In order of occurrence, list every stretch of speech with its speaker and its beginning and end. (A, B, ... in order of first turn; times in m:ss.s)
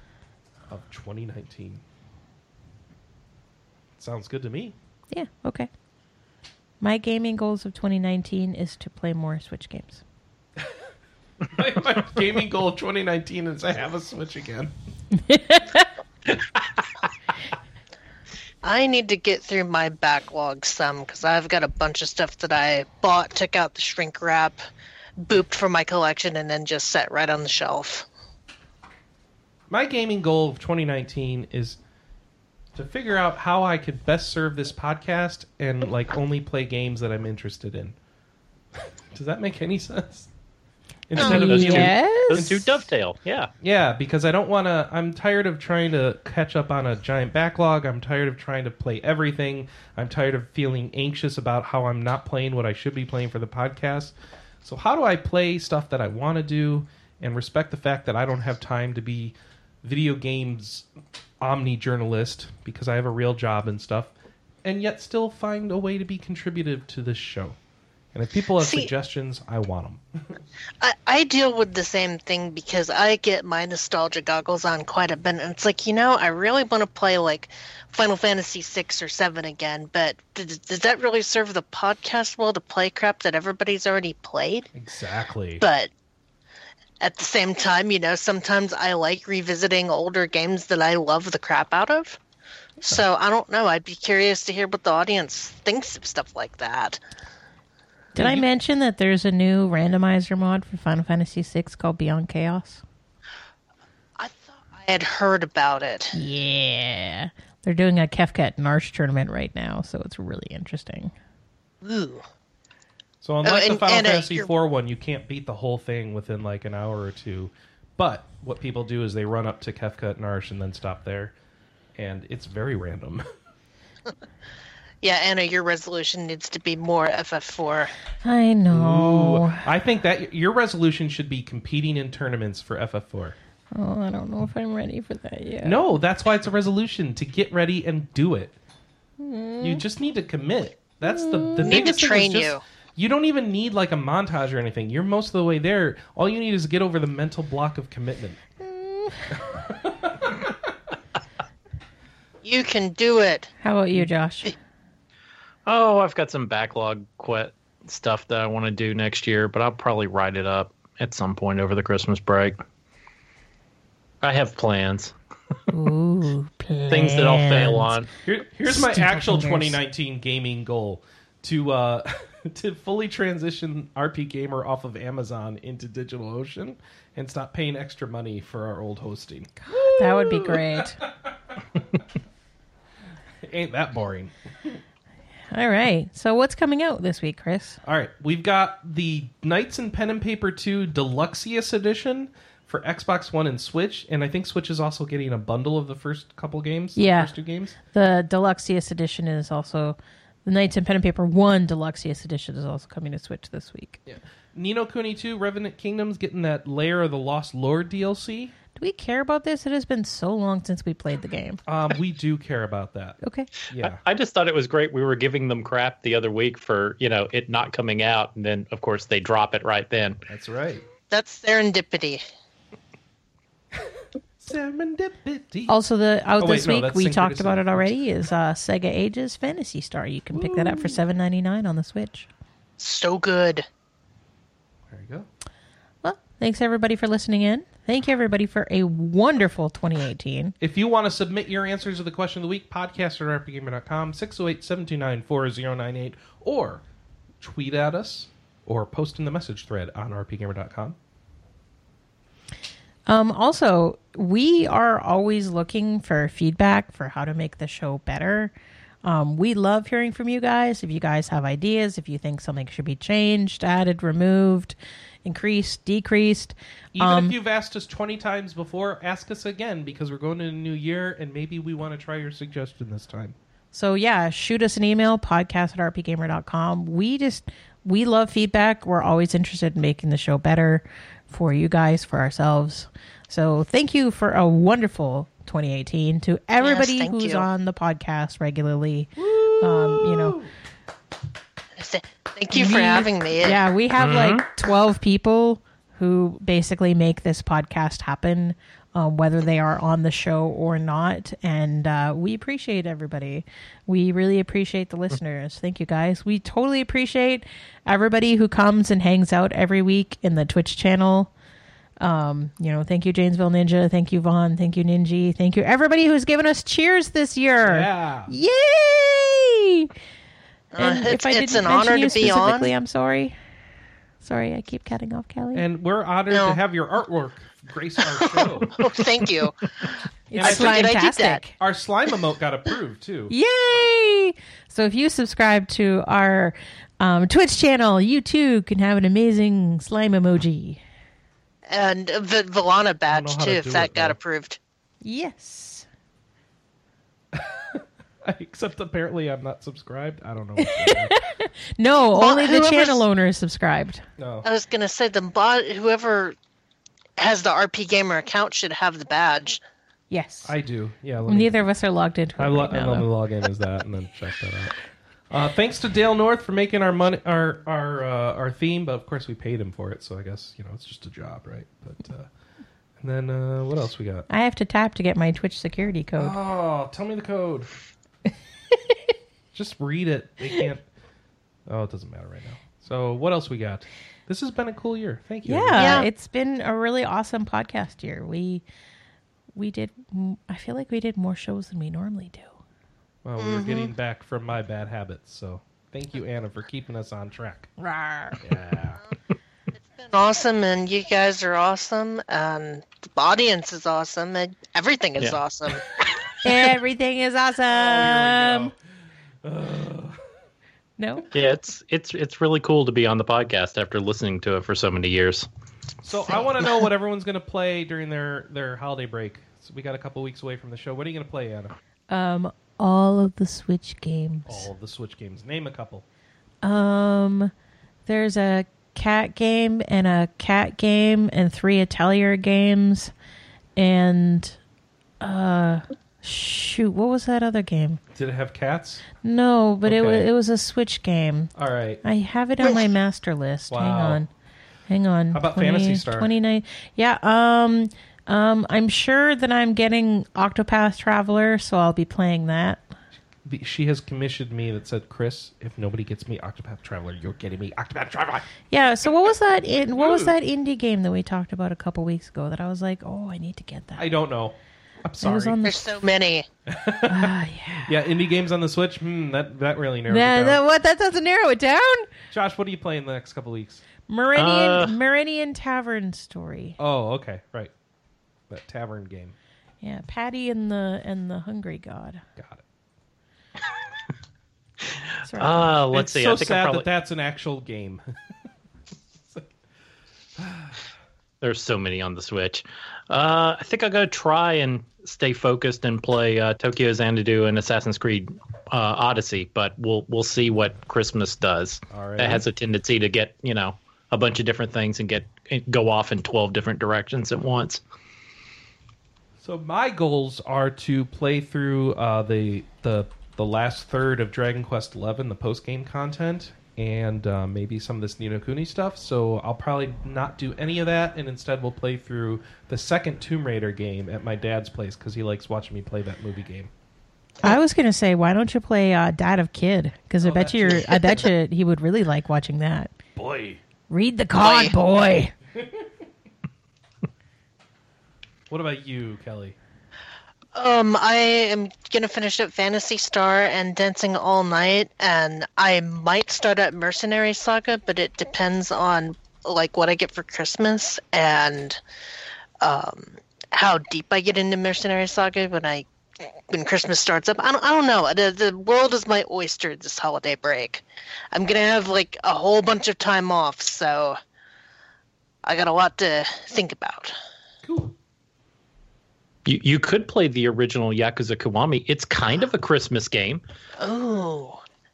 0:00.7-0:01.8 A
0:04.0-0:04.7 A
0:05.1-0:05.7 B
0:06.8-0:10.0 B
0:11.4-0:14.7 A
0:15.1-0:15.8 B
0:18.6-0:24.6 C
0:25.2-0:28.1 C
0:29.7-0:31.8 A
0:32.7-0:38.0 A
0:38.8-0:40.3 A
0:41.1-0:42.8 A
0:41.1-0:43.5 D
0:41.2-0:41.5 C
0:41.2-0:42.5 B
0:43.6-1:00.9 A
1:01.4-1:04.1 A
1:04.6-1:07.6 A
1:08.1-1:10.0 A
1:08.6-1:08.9 C
1:10.8-1:24.7 C
1:24.7-1:25.6 A
1:25.6-1:25.9 C
1:27.0-1:32.2 C
1:32.8-1:37.0 C
1:38.1-1:38.4 A
1:38.1-1:42.8 B
1:44.2-1:46.1 C
1:46.1-1:51.1 B
1:51.8-1:52.2 C
1:53.2-2:01.3 A
1:53.4-1:54.5 C
2:02.0-2:03.2 A
2:05.0-2:07.9 C
2:08.2-2:09.6 B
2:08.7-2:13.4 A
2:13.7-2:15.8 B
2:15.6-2:18.5 A
2:19.2-2:19.8 B
2:19.6-2:28.4 A
2:21.0-2:21.8 B
2:21.6-2:22.6 C
2:28.6-2:29.4 B
2:29.5-2:30.7 A
2:32.4-2:33.5 C
2:33.6-2:34.6 B
2:35.6-2:42.6 D
2:44.2-2:45.1 D
2:45.7-2:47.9 B
2:46.9-2:48.1 D
2:48.2-3:01.3 A
2:48.6-2:49.8 B
2:59.6-3:01.0 B
3:03.4-3:04.8 A
3:05.5-3:07.8 B
3:07.8-3:17.8 A
3:17.0-3:24.0 B
3:24.0-3:28.5 A
3:28.7-3:31.6 B
3:31.6-3:33.2 A
3:33.2-3:33.5 B
3:33.7-3:34.0 A
3:33.8-3:40.2 D
3:40.3-3:40.8 A
3:41.1-3:42.2 C
3:44.4-3:45.7 A
3:45.7-3:52.3 B
3:46.4-3:47.9 A
3:50.3-3:51.0 A
3:52.8-3:53.6 C
3:54.9-3:55.3 A
3:56.0-4:00.5 B
4:00.6-4:06.8 A
4:07.4-4:11.0 A
4:13.1-4:18.5 B
4:19.0-4:27.3 B
4:26.9-4:33.4 A
4:33.7-4:50.4 B
4:46.6-4:47.5 C
4:49.2-4:50.5 A
4:51.8-4:53.6 C
4:52.5-5:11.3 B
4:54.0-4:54.4 D
5:12.0-5:19.9 B
5:17.6-5:18.3 A
5:20.7-5:22.7 C
5:20.8-5:23.4 B
5:24.2-5:25.6 B
5:25.5-5:28.7 A
5:26.3-5:26.6 C
5:28.1-5:31.4 C
5:30.3-5:31.6 B
5:30.3-5:31.0 A
5:31.6-5:33.3 A
5:33.3-5:40.8 B
5:41.7-5:44.6 C
5:43.1-5:44.2 A
5:45.0-5:45.8 B
5:47.3-5:51.1 A
5:50.6-5:54.0 B
5:52.1-5:53.0 C
5:54.2-5:54.4 A
5:54.4-5:56.4 C
5:57.2-5:59.6 C
6:00.1-6:00.5 B
6:00.4-6:01.6 A
6:01.2-6:03.1 B
6:02.4-6:12.3 A
6:13.0-6:14.2 A
6:14.3-6:16.4 B
6:16.2-6:17.7 A
6:19.5-6:20.8 A
6:21.7-6:26.1 A
6:25.4-6:28.6 B
6:25.8-6:26.1 C
6:29.5-6:32.6 B
6:33.2-6:37.7 A
6:33.4-6:33.9 C
6:37.8-6:38.4 B
6:38.4-6:39.0 A
6:39.8-6:45.8 C
6:45.2-6:45.8 D
6:46.4-6:48.7 B
6:47.7-6:48.7 A
6:49.4-6:50.2 A
6:51.0-6:51.3 B
6:51.3-6:55.5 D
6:56.0-7:01.8 A
7:02.1-7:04.7 B
7:04.4-7:06.0 A
7:06.6-7:07.5 B
7:08.0-7:13.1 B
7:13.8-7:14.6 B
7:15.2-7:18.0 B
7:18.1-7:19.0 A
7:19.2-7:24.3 B
7:19.8-7:20.3 A
7:21.5-7:22.0 A
7:23.7-7:24.2 A
7:24.9-7:32.8 B
7:25.3-7:26.3 A
7:33.4-7:38.5 A
7:38.7-7:44.0 B
7:39.9-7:40.3 A
7:44.0-7:45.6 A
7:45.2-7:45.8 B
7:45.6-7:46.5 C
7:46.7-7:50.6 A
7:47.1-7:47.9 B
7:50.1-7:52.1 B
7:52.3-7:53.8 A
7:54.1-7:56.8 B
7:54.4-7:54.9 D
7:56.8-7:57.7 A
7:58.5-7:59.3 A
7:59.8-8:02.2 B
8:02.4-8:02.6 A
8:04.9-8:06.9 D
8:05.2-8:05.7 B
8:05.9-8:08.0 A
8:10.4-8:10.8 A
8:11.4-8:27.8 D
8:21.9-8:22.4 A
8:29.4-8:46.7 A
8:47.4-8:52.9 B
8:50.2-8:51.3 A
8:53.2-8:53.6 A
8:53.9-8:55.3 B
8:54.4-8:54.7 C
8:58.5-8:59.6 A
9:00.5-9:11.8 C
9:12.6-9:24.2 C
9:25.4-9:27.1 C
9:27.6-9:27.9 A
9:29.4-9:33.4 D
9:33.8-9:34.6 C